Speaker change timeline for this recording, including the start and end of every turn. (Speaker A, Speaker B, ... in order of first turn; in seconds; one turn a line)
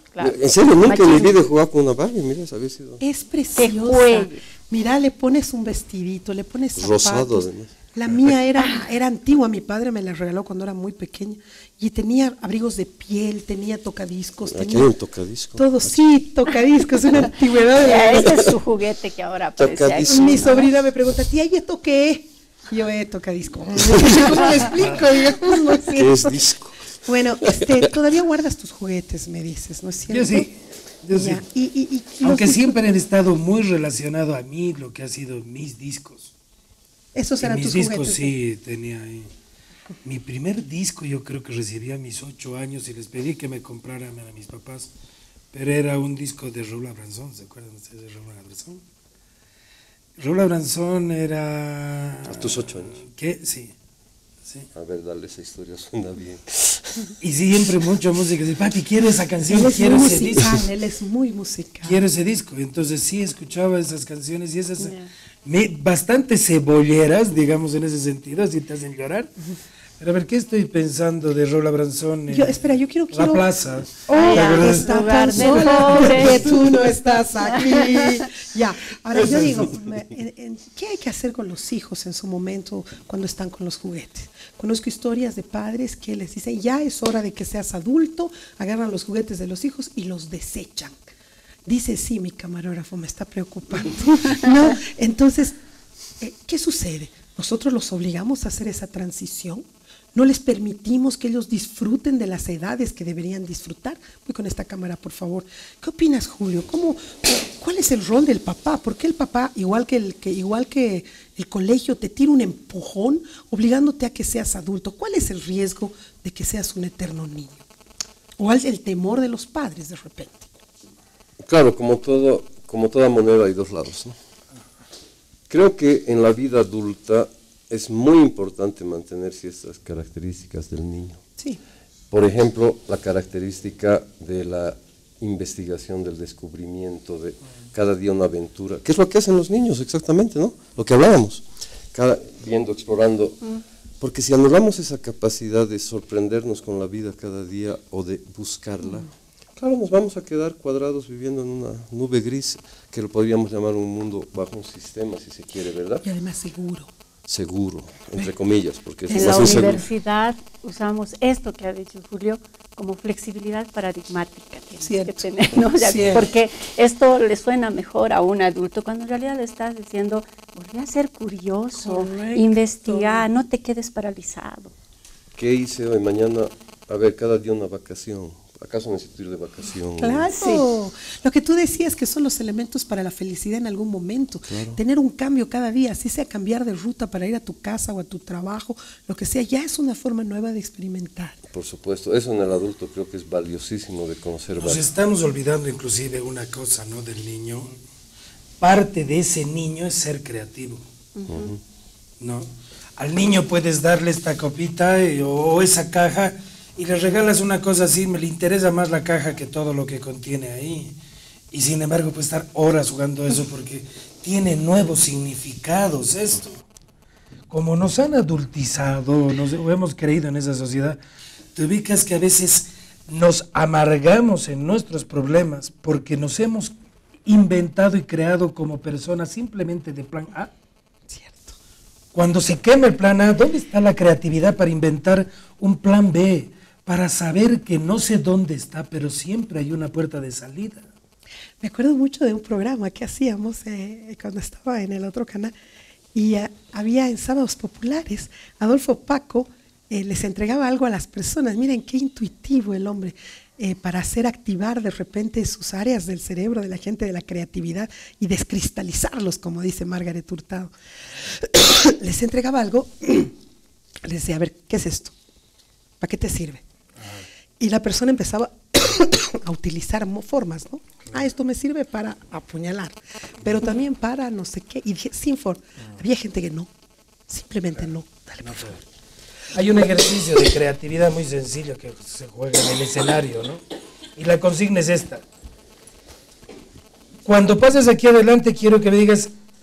Speaker A: 0.1-1.4
Speaker B: 0.2-3.0
Speaker C: 3.0-14.9
Speaker A: 3.6-4.4
Speaker B: 6.8-7.7
Speaker B: 14.4-15.9
Speaker C: 15.6-18.4
Speaker A: 17.8-20.7
Speaker B: 19.6-20.4
Speaker C: 20.1-26.5
Speaker B: 23.9-24.3
Speaker D: 24.8-25.0
Speaker B: 25.8-26.8
Speaker C: 27.0-30.5
Speaker B: 27.4-27.9
Speaker D: 30.1-31.4
Speaker C: 31.1-32.8
Speaker D: 32.2-36.3
Speaker C: 37.1-38.3
Speaker D: 37.4-39.3
Speaker D: 40.0-44.9
Speaker D: 45.5-48.8
Speaker D: 50.2-53.7
Speaker B: 52.3-53.0
Speaker B: 54.7-57.1
Speaker D: 57.2-60.6
Speaker C: 59.4-62.0
Speaker D: 61.8-69.3
Speaker D: 70.0-72.6
Speaker C: 72.3-73.5
Speaker D: 73.1-76.5
Speaker C: 74.0-91.0
Speaker A: 74.1-76.8
Speaker A: 77.5-78.2
Speaker D: 79.1-79.7
Speaker C: 91.7-95.6
Speaker C: 96.2-99.6
Speaker C: 100.1-117.6
Speaker C: 118.4-120.5
Speaker B: 121.5-124.2
Speaker B: 125.5-131.2
Speaker B: 132.1-143.4
Speaker B: 144.0-156.0
Speaker C: 156.0-156.9
Speaker B: 157.3-159.8
Speaker C: 159.1-159.8
Speaker A: 159.1-174.7
Speaker C: 164.8-166.3
Speaker C: 171.7-173.3
Speaker B: 175.3-180.3
Speaker C: 180.0-191.4
Speaker A: 180.3-180.6
Speaker B: 184.5-184.8
Speaker B: 191.5-194.9
Speaker D: 194.6-197.7
Speaker D: 198.6-200.8
Speaker A: 201.2-201.5
Speaker B: 201.3-201.6
Speaker D: 202.2-210.9
Speaker D: 211.5-216.6
Speaker D: 217.5-221.0
Speaker D: 221.5-226.7
Speaker D: 227.2-230.5
Speaker C: 231.1-231.6
Speaker D: 232.1-240.9
Speaker C: 241.6-245.5
Speaker C: 246.1-263.3
Speaker C: 264.0-265.1
Speaker C: 266.0-266.6
Speaker D: 267.0-267.2
Speaker C: 267.6-276.7
Speaker C: 277.3-278.8
Speaker D: 278.4-278.8
Speaker D: 279.5-283.6
Speaker D: 284.1-285.2
Speaker D: 287.2-289.3